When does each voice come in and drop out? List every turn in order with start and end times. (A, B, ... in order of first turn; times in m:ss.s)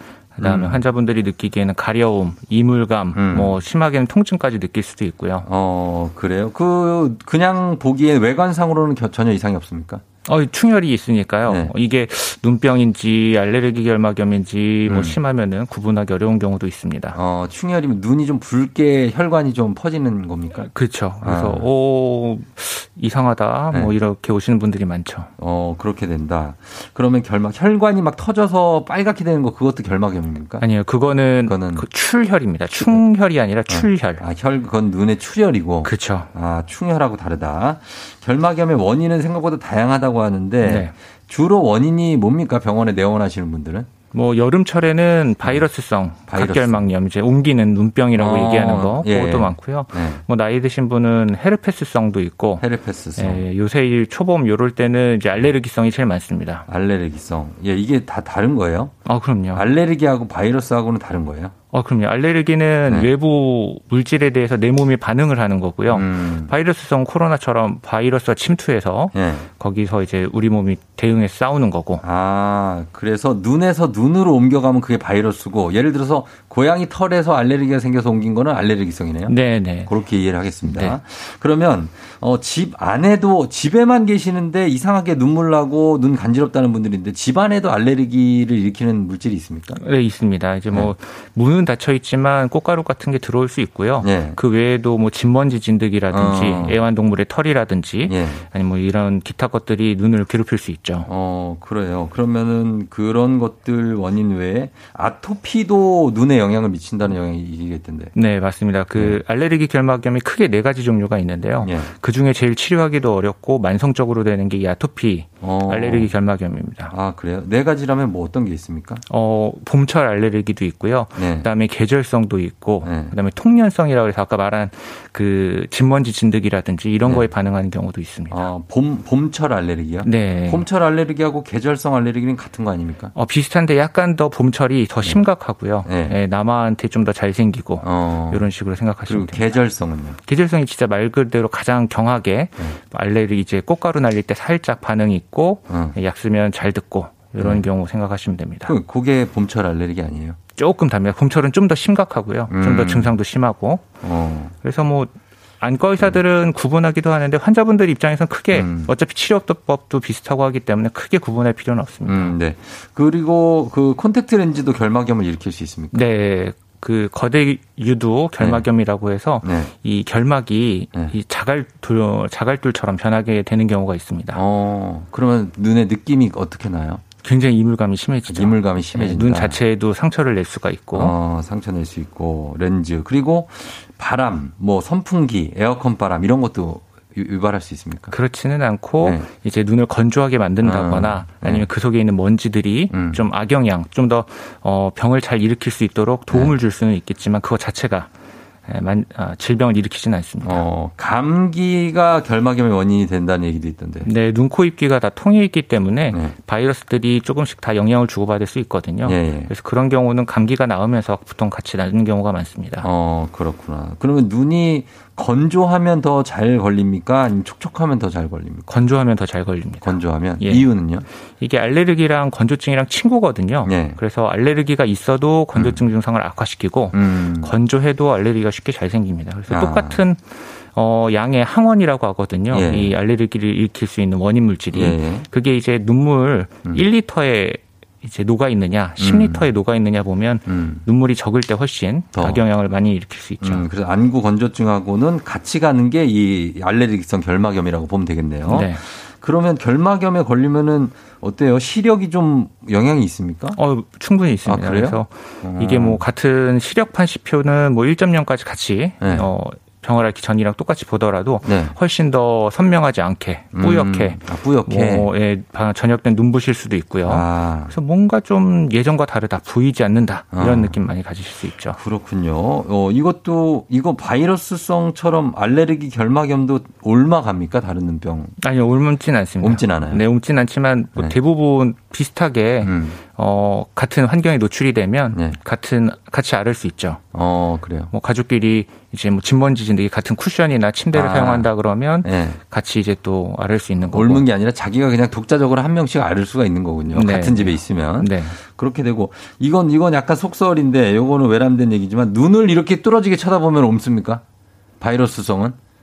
0:00.4-0:05.5 A
0:00.4-0:00.8 B
0:03.2-0:03.6 B
0:05.5-0:10.0 B
0:10.3-0:17.2 A
0:11.5-0:11.7 B
0:14.9-0:15.2 B
0:17.1-0:20.7 B
0:20.6-0:25.3 A
0:21.2-0:21.7 B
0:25.4-0:30.6 B
0:30.6-0:34.2 A
0:31.5-0:31.9 B
0:33.7-0:43.9 B
0:35.8-0:36.3 A
0:40.6-0:40.9 A
0:44.1-0:52.6 A
0:46.3-0:46.9 B
0:48.1-0:50.2 B
0:52.6-0:53.4 B
0:53.2-0:56.7 A
0:56.7-0:58.9 B
0:59.1-0:59.6 A
0:59.5-1:01.5 B
1:01.7-1:12.0 A
1:05.9-1:06.6 B
1:09.1-1:09.5 B
1:12.0-1:19.4 B
1:19.3-1:19.9 A
1:19.9-1:29.8 B
1:20.6-1:21.0 A
1:29.8-1:41.1 A
1:34.0-1:34.4 B
1:36.1-1:36.8 B
1:38.1-1:38.4 B
1:41.1-1:48.1 B
1:48.2-1:56.9 A
1:51.6-1:51.9 B
1:55.4-1:56.1 B
1:56.9-1:59.0 B
1:59.1-2:08.5 A
2:01.2-2:01.5 B
2:02.8-2:03.1 B
2:08.3-2:13.1 B
2:10.0-2:10.7 A
2:13.2-2:19.6 A
2:15.8-2:16.2 B
2:17.8-2:18.5 B
2:19.1-2:20.2 B
2:20.3-2:28.7 A
2:25.7-2:26.0 B
2:27.4-2:27.7 B
2:28.7-2:30.4 B
2:30.6-2:33.9 A
2:32.5-2:33.1 B
2:34.0-2:34.5 B
2:34.6-2:42.4 A
2:38.5-2:38.9 B
2:42.1-2:46.0 B
2:45.9-2:54.4 A
2:48.4-2:48.7 B
2:49.4-2:49.7 B
2:54.3-2:57.0 B
2:57.2-3:01.2 A
2:58.3-2:59.6 B
3:01.0-3:08.2 B
3:08.1-3:18.1 A
3:10.6-3:11.7 B
3:12.9-3:13.2 B
3:16.3-3:16.6 B
3:18.7-3:20.6 A
3:20.4-3:24.1 B
3:24.0-3:32.9 A
3:29.0-3:29.5 B
3:32.8-3:38.7 B
3:38.7-3:40.7 A
3:39.8-3:41.1 B
3:41.4-4:03.6 A
3:43.6-3:44.0 B
3:45.6-3:45.9 B
3:46.9-3:47.5 B
3:49.5-3:50.0 B
3:52.5-3:53.0 B
3:54.7-3:55.3 B
3:59.0-3:59.5 B
4:00.5-4:00.8 B
4:02.1-4:02.4 B
4:03.4-4:13.6 B
4:08.5-4:08.8 A
4:13.6-4:31.8 A
4:14.4-4:16.0 B
4:19.0-4:19.3 B
4:21.4-4:21.8 B
4:23.6-4:25.1 B
4:27.0-4:27.7 B
4:30.3-4:30.8 B
4:31.8-4:38.3 B
4:38.4-4:47.0 A
4:39.4-4:40.0 B
4:42.6-4:43.0 B
4:47.1-4:47.9 B
4:47.9-4:54.2 A
4:50.9-4:51.5 B
4:52.0-4:52.4 B
4:53.9-5:04.2 B
4:56.9-4:58.4 A
5:04.8-5:05.6 B